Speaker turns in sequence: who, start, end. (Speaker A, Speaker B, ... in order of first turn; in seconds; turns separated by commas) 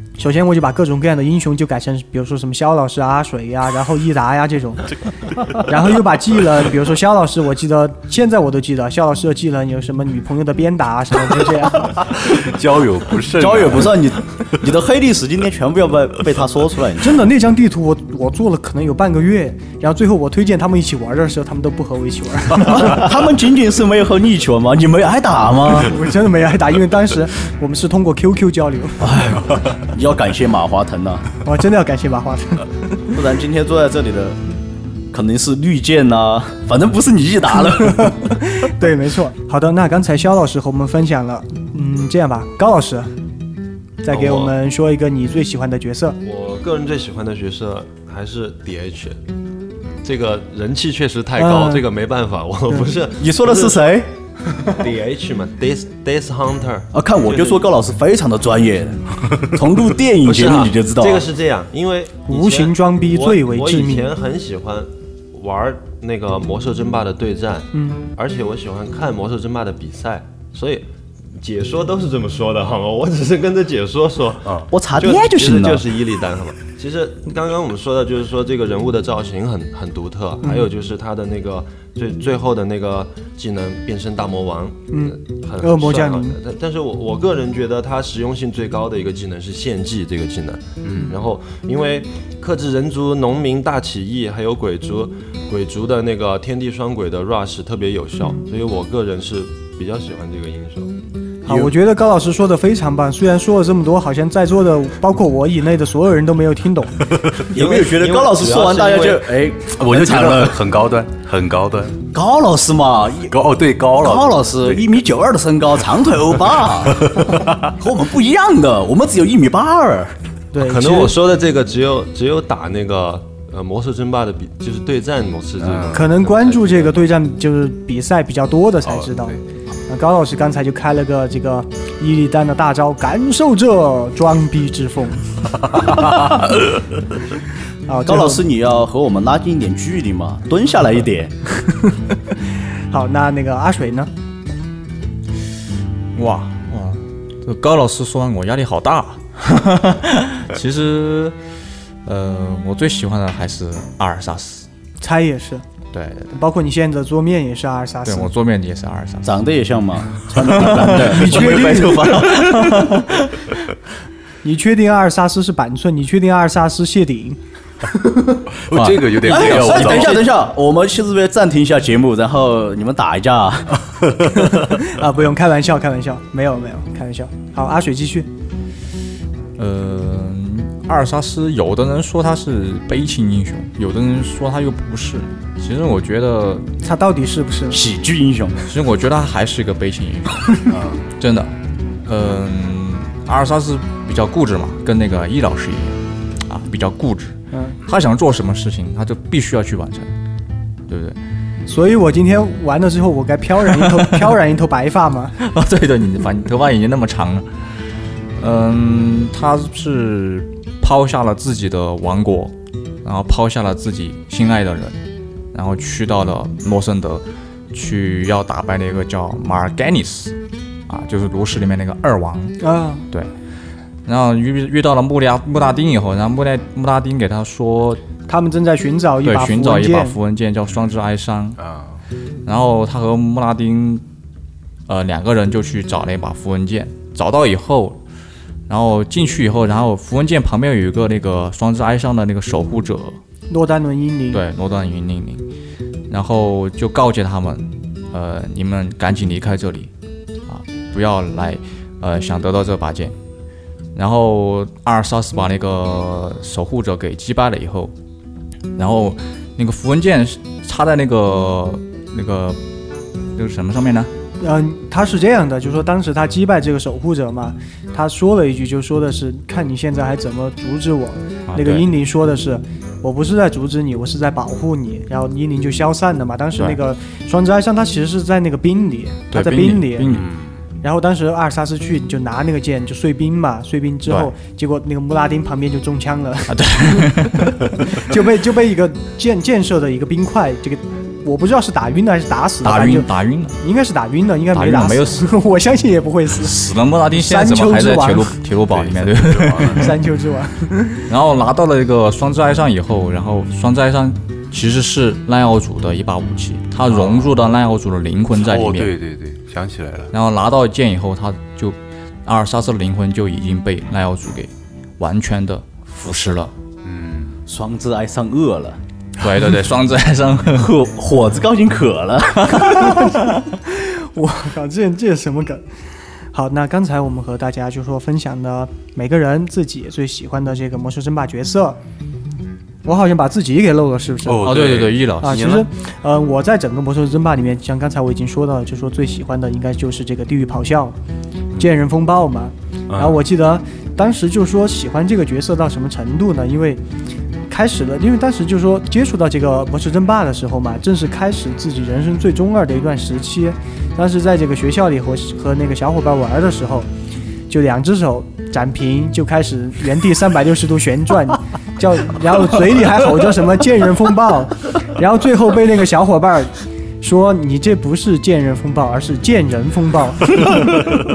Speaker A: 0.2-12.0, Speaker B: 12.2-14.1, Speaker C: 13.3-17.2, Speaker A: 17.0-23.0, Speaker C: 22.6-26.0, Speaker A: 25.6-29.1, Speaker C: 29.0-31.2, Speaker A: 31.4-32.7, Speaker C: 33.1-34.4, Speaker C: 35.1-38.4, Speaker A: 37.8-43.1, Speaker A: 44.0-46.2, Speaker D: 44.1-44.5, Speaker D: 46.2-49.2, Speaker D: 50.0-54.0, Speaker A: 51.4-51.9, Speaker C: 53.2-54.1, Speaker D: 54.6-57.6, Speaker C: 56.9-61.3, Speaker D: 60.2-100.9, Speaker A: 62.3-64.1, Speaker A: 67.7-68.0, Speaker C: 74.7-75.9, Speaker A: 84.9-86.4, Speaker B: 90.8-91.2, Speaker A: 101.4-107.0, Speaker C: 101.5-101.7, Speaker C: 107.4-110.6, Speaker D: 107.5-109.3, Speaker B: 109.7-112.0, Speaker C: 112.1-113.4, Speaker B: 113.3-114.9, Speaker C: 114.0-120.1, Speaker B: 116.8-117.6, Speaker A: 120.5-121.1, Speaker D: 120.6-127.1, Speaker B: 125.6-126.1, Speaker A: 125.9-129.4, Speaker B: 128.8-129.4, Speaker A: 129.9-135.5, Speaker A: 137.9-138.4, Speaker C: 138.1-141.3, Speaker A: 142.9-144.1, Speaker E: 146.1-151.3, Speaker E: 152.0-154.7, Speaker A: 155.0-155.7, Speaker E: 155.9-156.3, Speaker A: 156.3-158.3, Speaker E: 158.1-159.4, Speaker C: 159.2-163.0, Speaker E: 160.3-163.4, Speaker A: 160.9-162.2, Speaker A: 164.4-167.4, Speaker A: 167.9-168.4, Speaker B: 168.6-170.3, Speaker C: 168.9-174.0, Speaker A: 174.3-178.3, Speaker E: 179.6-186.7, Speaker A: 186.8-187.8, Speaker C: 187.7-188.6, Speaker E: 188.6-200.1, Speaker A: 197.5-197.8, Speaker E: 200.9-201.2, Speaker A: 201.7-205.3, Speaker E: 203.6-204.3, Speaker E: 205.4-207.7, Speaker E: 208.4-215.0, Speaker E: 215.5-220.3, Speaker E: 220.9-223.3, Speaker A: 222.6-223.1, Speaker E: 224.0-228.0, Speaker A: 228.3-230.2, Speaker E: 229.2-231.6, Speaker B: 231.6-232.0, Speaker E: 232.4-234.0, Speaker E: 234.9-238.0, Speaker E: 238.7-243.2, Speaker A: 243.5-244.4, Speaker E: 244.3-245.4, Speaker E: 246.1-249.9, Speaker E: 250.4-253.1, Speaker E: 253.9-257.9, Speaker E: 258.8-262.6, Speaker E: 263.4-264.1, Speaker A: 264.4-280.1, Speaker E: 271.5-271.9, Speaker E: 279.3-280.3, Speaker B: 280.1-280.6, Speaker A: 280.8-298.4, Speaker E: 284.1-284.3, Speaker E: 286.5-288.1, Speaker E: 292.6-293.6, Speaker E: 294.5-295.3, Speaker E: 296.4-300.0, Speaker B: 298.7-299.9, Speaker A: 299.7-301.0, Speaker E: 301.1-308.9, Speaker B: 306.9-307.3, Speaker B: 308.4-310.1, Speaker E: 310.1-316.5, Speaker B: 316.8-317.4, Speaker C: 317.5-318.8, Speaker E: 319.2-320.7, Speaker C: 320.5-322.9, Speaker E: 322.4-323.2, Speaker A: 322.8-325.6, Speaker A: 326.3-331.8, Speaker A: 332.8-334.6, Speaker B: 334.2-335.7, Speaker E: 334.4-335.5, Speaker A: 335.2-340.9, Speaker A: 341.6-346.8, Speaker B: 342.9-343.2, Speaker A: 347.5-356.9, Speaker A: 357.5-370.6